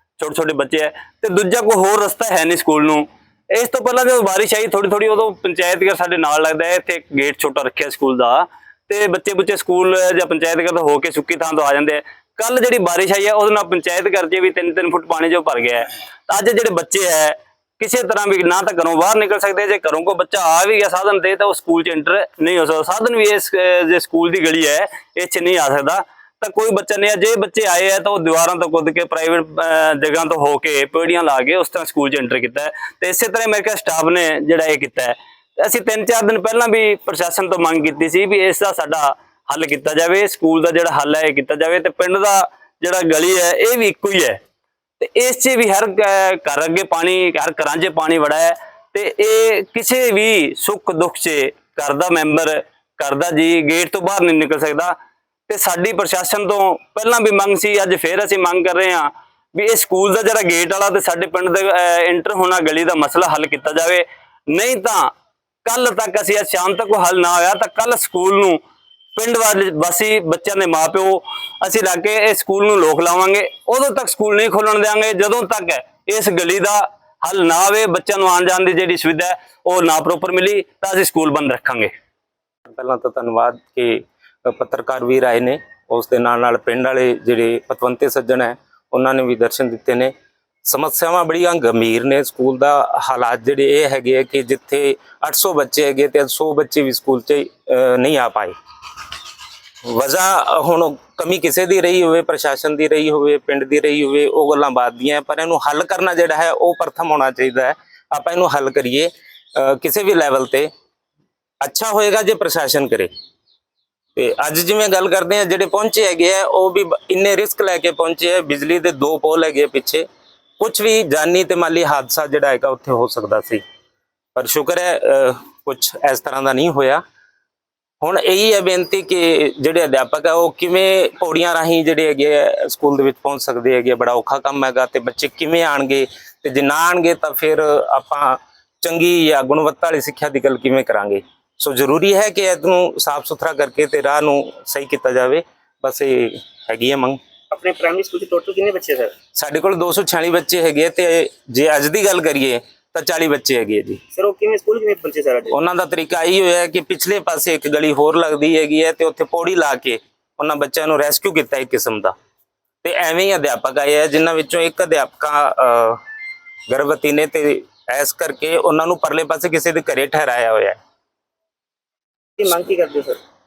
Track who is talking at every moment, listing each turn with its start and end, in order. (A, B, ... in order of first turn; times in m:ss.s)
0:00.2-0:44.4 A
0:45.0-0:54.9 A
0:55.5-1:05.1 A
1:05.6-1:08.6 A
1:09.2-1:21.9 A
1:22.7-1:30.1 B
1:30.6-1:38.5 B
1:39.8-1:50.7 B
1:51.6-1:53.1 B
1:54.1-2:00.1 B
2:00.6-2:03.6 B
2:04.3-2:07.0 B
2:08.0-2:27.2 B
2:27.5-2:29.1 C
2:29.3-2:34.0 B
2:34.1-2:35.6 C
2:35.5-2:42.1 B
2:42.8-2:46.0 B
2:46.7-2:50.8 B
2:52.4-2:53.2 C